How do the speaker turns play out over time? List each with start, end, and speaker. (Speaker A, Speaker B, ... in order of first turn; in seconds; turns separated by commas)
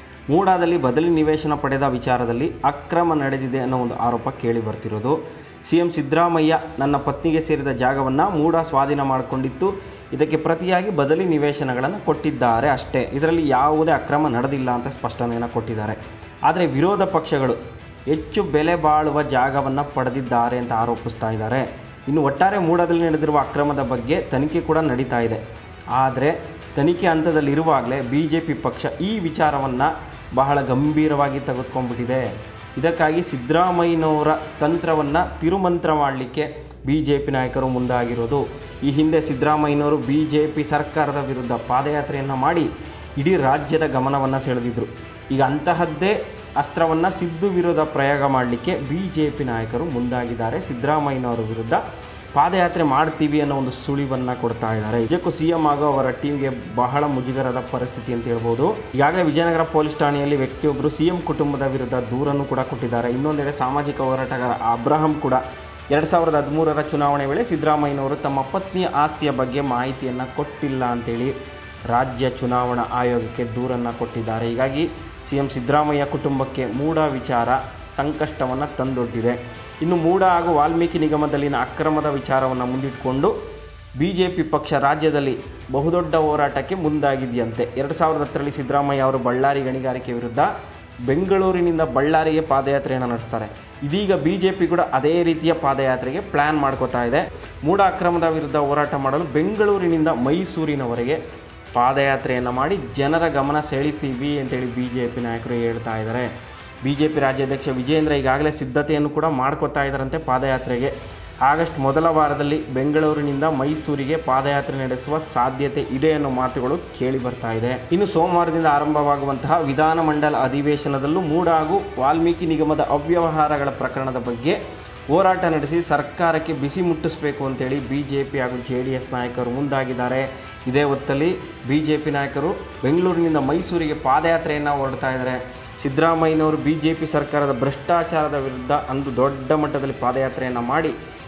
Speaker A: 0.3-25.4, Speaker A: 25.9-51.8, Speaker A: 52.3-71.3, Speaker A: 71.9-83.3, Speaker A: 84.0-90.5, Speaker A: 91.1-101.2, Speaker A: 101.7-106.3, Speaker A: 106.8-110.9, Speaker A: 111.5-124.6, Speaker A: 125.1-140.9